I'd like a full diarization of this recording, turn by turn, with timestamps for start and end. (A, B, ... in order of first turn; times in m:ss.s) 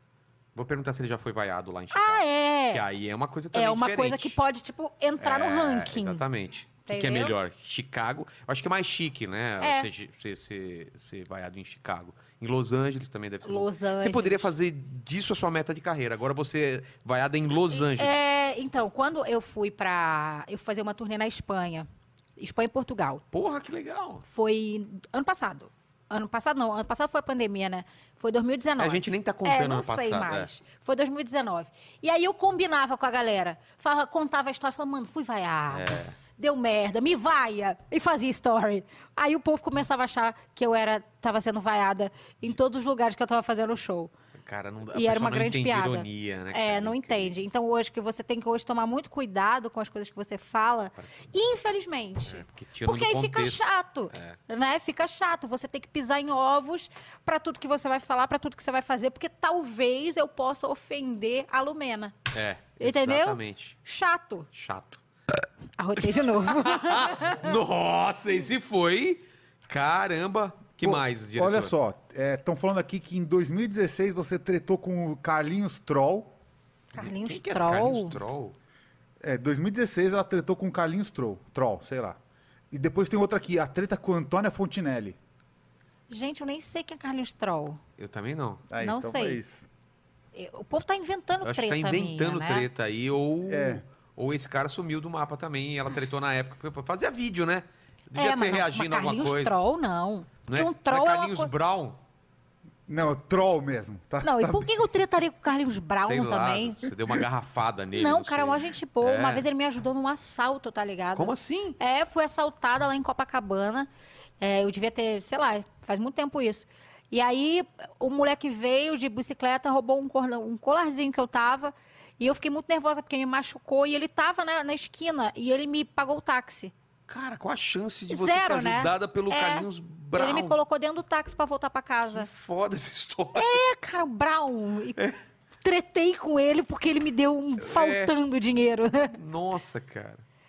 0:00.5-0:04.4 A
0:01.9-0:02.8 B
0:03.5-0:06.2 B
0:05.2-0:18.1 A
0:06.8-0:07.3 B
0:09.6-0:09.9 B
0:13.4-0:14.5 B
0:17.7-0:23.2 B
0:23.3-0:24.2 A
0:24.2-0:44.1 B
0:28.8-0:30.5 A
0:35.7-0:36.2 A
0:44.4-0:47.4 A
0:44.9-1:02.1 B
0:52.2-0:53.6 A
0:54.1-0:54.4 A
1:02.3-1:03.8 A
1:02.8-1:04.5 B
1:04.5-1:05.0 A
1:05.8-1:07.6 B
1:06.0-1:11.7 A
1:10.8-1:16.3 C
1:16.9-1:18.2 B
1:17.0-1:18.6 A
1:19.2-1:22.2 C
1:22.7-1:25.2 C
1:26.1-1:27.8 B
1:28.0-1:28.6 A
1:28.7-1:29.7 C
1:28.8-1:29.4 B
1:30.3-1:32.7 B
1:31.4-1:39.6 A
1:33.4-1:33.8 C
1:38.1-1:41.5 B
1:40.4-1:42.0 A
1:42.9-1:44.9 C
1:44.2-1:46.9 B
1:46.0-1:49.4 A
1:48.0-1:53.9 B
1:51.2-1:51.8 A
1:54.4-2:06.7 B
2:07.1-2:10.6 A
2:08.1-2:12.3 B
2:12.1-2:13.6 A
2:13.3-2:15.0 B
2:15.6-2:19.2 B
2:17.6-2:18.1 A
2:19.2-2:20.2 A